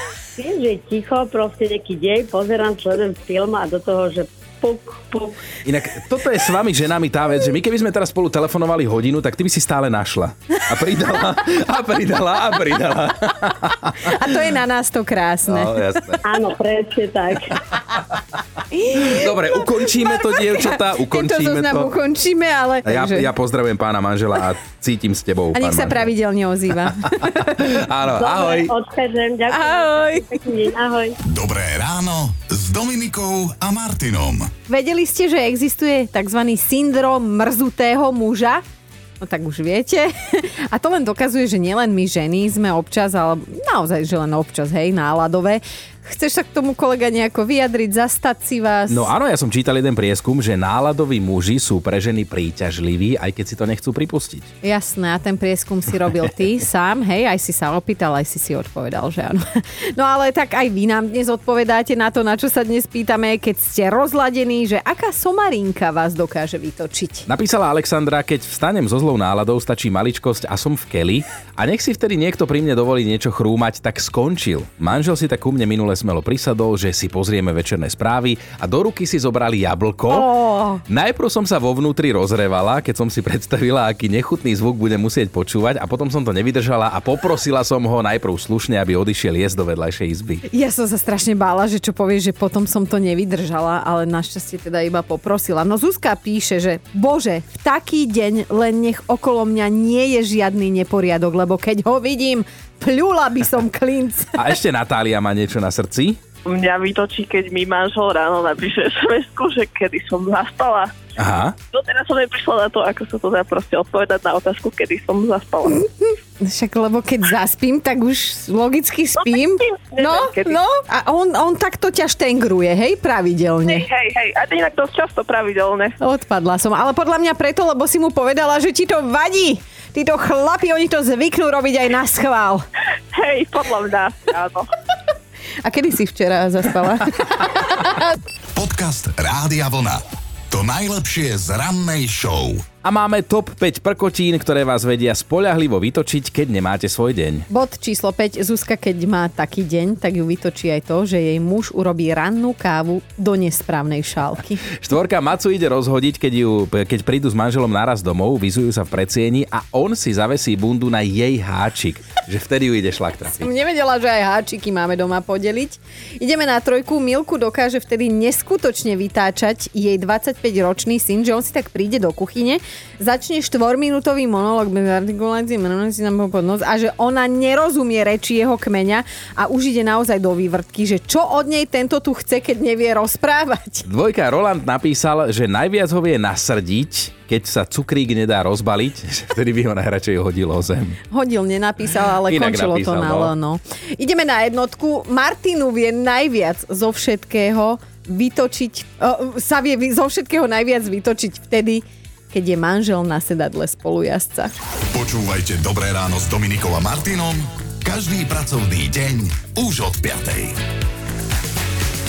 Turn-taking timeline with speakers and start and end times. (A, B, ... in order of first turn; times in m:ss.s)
0:00.4-0:05.4 A
0:05.6-0:14.1 B
0:14.0-0:15.8 C
0:15.5-0:16.2 B
0:16.2-0:17.6 A
0:18.8-0:19.3 C
0:18.9-0:21.9 B
0:20.2-0:23.3 C
0:22.8-0:26.1 B
0:25.5-0:27.7 C
0:27.4-0:28.7 B
0:28.2-0:31.2 A
0:29.5-0:30.4 C
0:31.3-0:34.5 D
0:34.7-0:38.6 C
0:39.2-0:49.1 C
0:48.9-0:54.5 B
0:54.6-1:07.3 C
1:07.3-1:20.3 B
1:20.1-1:20.8 C
1:20.9-1:30.4 B
1:30.5-1:44.4 C
1:44.4-1:46.2 B
1:46.4-1:50.9 E
1:51.2-1:51.6 B
1:51.7-1:55.8 E
1:56.0-2:03.9 C
1:59.8-2:00.6 E
2:03.6-2:06.0 E
2:06.0-2:12.6 C
2:13.1-2:14.7 E
2:15.6-2:18.1 C
2:18.5-2:22.8 D
2:22.8-2:27.5 B
2:27.5-2:34.6 C
2:34.8-2:43.5 B
2:43.4-3:03.9 C
3:03.8-3:11.0 B
3:11.1-3:24.5 C
3:12.2-3:13.3 B
3:24.9-3:30.6 D